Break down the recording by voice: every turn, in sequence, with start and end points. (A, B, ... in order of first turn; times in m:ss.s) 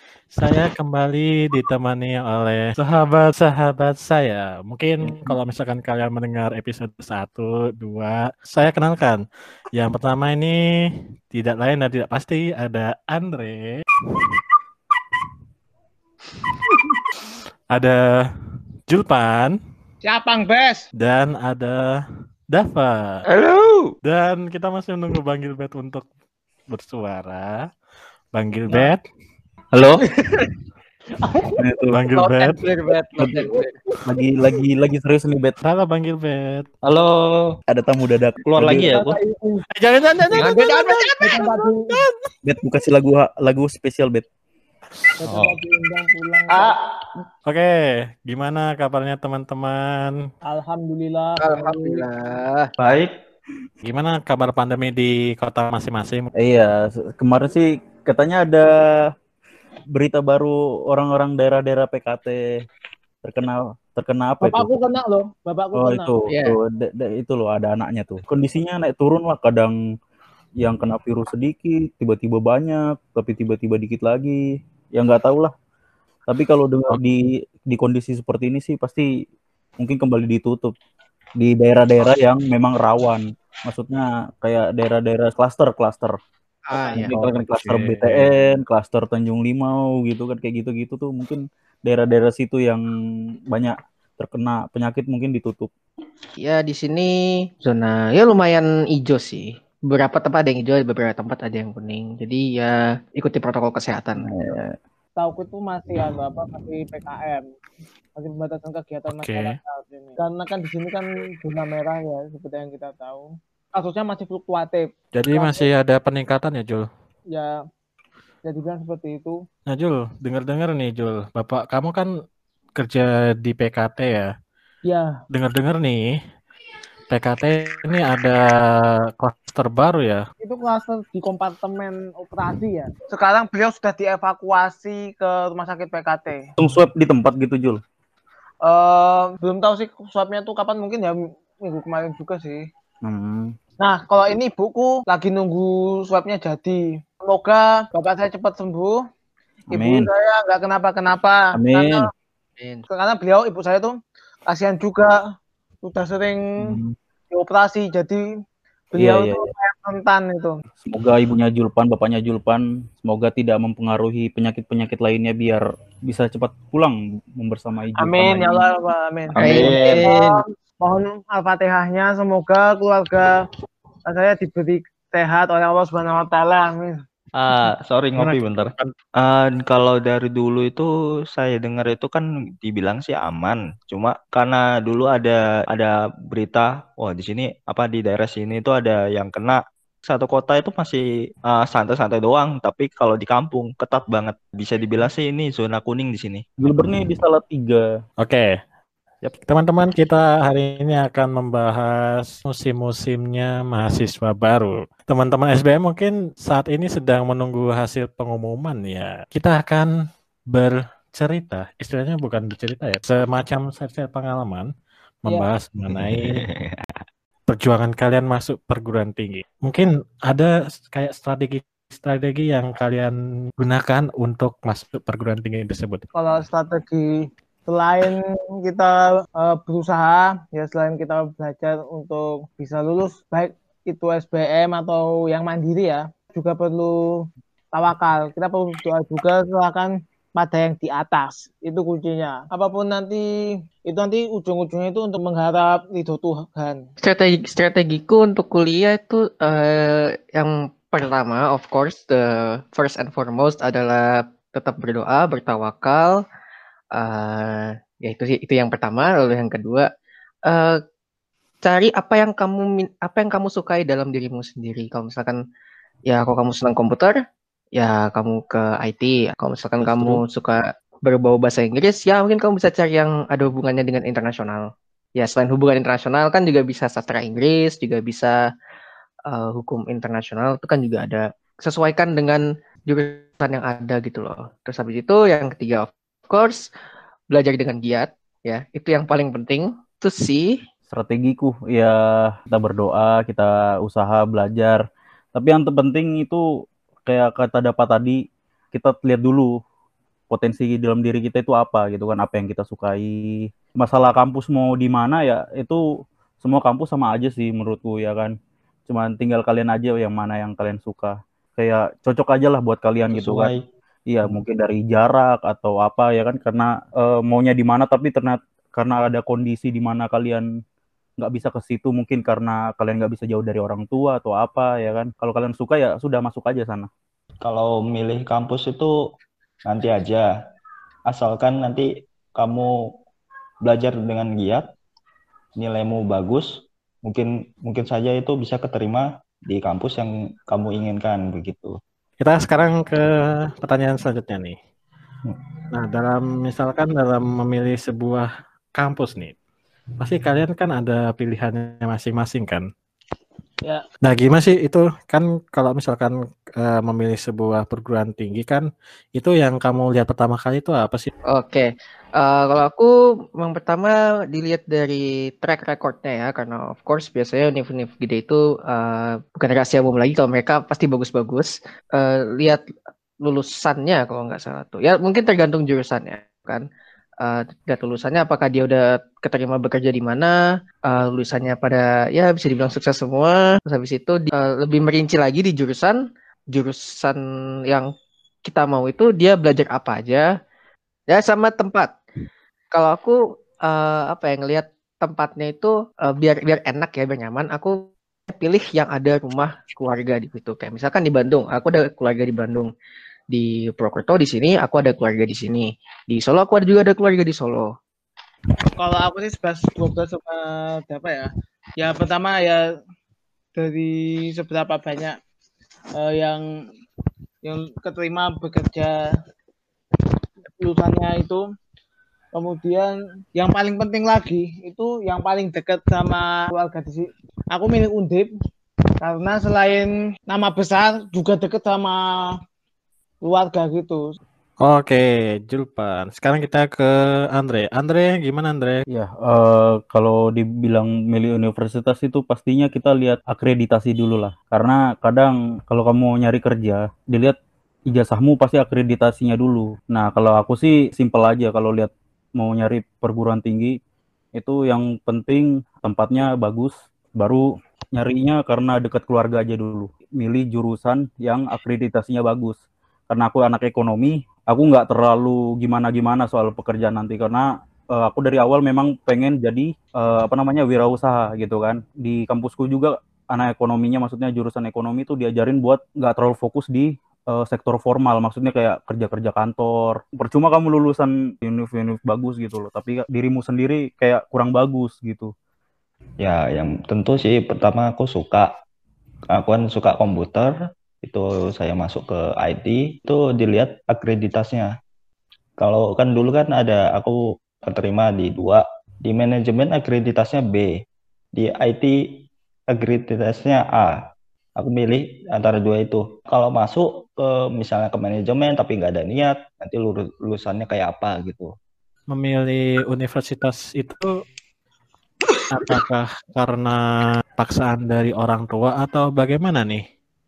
0:00.3-0:09.2 A
0:09.8-0:13.8 A
0:17.7-0:18.3 A
0:18.9-0:19.6 A
0:20.0-0:20.9 B
0:21.0-0:23.2 A
0:23.3-0:24.0 C
0:24.0-0:26.1 A
0:26.7-0:27.7 A
0:28.3-0:29.0 A
0:29.8-0:30.1 D
0:31.6-0:32.0 D
0:31.9-0:32.6 A
0:32.1-0:33.7 C
0:33.2-0:33.5 D
0:34.1-0:35.6 D
0:35.6-0:36.7 A
0:36.8-0:37.6 E
0:37.7-0:39.0 D
0:38.5-0:39.2 E
0:38.8-0:39.6 B
0:39.7-0:41.6 A
0:40.3-0:42.0 B
0:40.4-0:41.5 C
0:42.4-0:44.3 D
0:45.2-0:46.8 B
0:45.3-0:45.6 E
0:47.5-0:50.3 A
0:50.4-0:52.1 B
0:51.4-0:52.7 C
0:52.8-0:53.1 E
0:53.8-0:56.3 A
0:56.4-0:59.0 D
0:59.9-1:02.4 D
1:03.2-1:04.7 D
1:04.4-1:06.2 B
1:05.8-1:09.8 D
1:06.3-1:06.6 C
1:10.6-1:14.4 D
1:14.9-1:15.5 D
1:16.3-1:19.1 D
1:19.8-1:20.7 D
1:21.4-1:26.2 D
1:26.7-1:27.1 C
1:26.9-1:32.8 D
1:26.9-1:28.3 A
1:33.5-1:35.7 D
1:36.4-1:44.3 C
1:44.2-1:44.8 D
1:45.2-1:47.5 B
1:48.2-1:55.7 B
1:49.1-1:49.6 A
1:55.1-1:56.9 A
1:57.3-1:57.6 B
1:58.4-1:59.4 B
1:59.7-2:02.1 A
2:02.8-2:04.3 A
2:04.8-2:05.2 B
2:05.3-2:06.1 A
2:07.1-2:10.2 A
2:10.4-2:16.5 B
2:16.6-2:17.8 D
2:18.6-2:22.7 B
2:23.0-2:23.5 D
2:23.8-2:29.0 B
2:29.7-2:32.1 B
2:29.7-2:30.1 D
2:31.6-2:32.1 D
2:32.6-2:32.8 C
2:32.9-2:34.0 B
2:34.5-2:35.2 B
2:35.8-2:36.8 B
2:36.6-2:36.9 D
2:37.3-2:38.2 B
2:38.9-2:40.6 B
2:39.0-2:39.5 D
2:40.8-2:48.7 D
2:48.0-2:53.4 B
2:49.3-2:50.1 E
2:49.4-2:50.4 C
2:54.1-2:57.0 B
2:57.4-3:16.4 E
2:58.2-2:58.9 A
3:16.6-3:17.8 D
3:18.2-3:18.6 A
3:19.4-3:29.9 A
3:30.5-3:34.7 A
3:35.2-3:36.4 A
3:35.9-3:36.9 E
3:37.5-3:46.1 A
3:46.1-4:03.2 B
4:03.9-4:06.8 B
4:07.0-4:16.2 C
4:16.9-4:19.9 C
4:20.5-4:20.8 C
4:21.6-4:25.4 C
4:26.1-4:27.2 C
4:27.8-4:38.4 C
4:39.3-4:46.7 C
4:47.3-4:50.6 C
4:50.9-4:54.8 D
4:55.3-4:56.4 D
4:57.1-4:58.2 D
4:58.7-4:59.5 D
5:00.3-5:05.8 D
5:06.4-5:08.3 D
5:08.9-5:13.5 D
5:13.1-5:13.6 E
5:14.1-5:20.4 D
5:21.2-5:26.9 D
5:27.4-5:28.9 E
5:29.6-5:30.3 E
5:31.1-5:32.7 E
5:33.6-5:34.7 E
5:35.6-5:36.5 E
5:37.0-5:41.8 E
5:42.2-5:44.6 A
5:45.7-5:49.4 A
5:50.0-5:52.7 A
5:54.0-6:01.1 A
6:01.3-6:12.6 C
6:13.2-6:16.6 C
6:17.2-6:27.9 C
6:28.5-6:30.3 C
6:31.1-6:31.9 C
6:32.7-6:42.7 C
6:43.3-6:47.7 C
6:48.8-6:52.6 B
6:53.6-6:55.2 B
6:56.0-6:56.4 B
6:57.4-6:58.9 B
7:00.5-7:01.4 B
7:02.3-7:08.3 B
7:09.0-7:12.3 B
7:13.2-7:14.2 B
7:14.6-7:18.8 A
7:18.9-7:27.4 D
7:27.9-7:33.7 D
7:34.4-8:05.3 D
8:06.2-8:08.5 E
8:09.3-8:14.7 E
8:15.6-8:20.8 E
8:21.4-8:24.0 E
8:24.6-8:31.5 E
8:32.1-8:34.1 A
8:35.5-8:36.8 A
8:37.4-8:39.8 A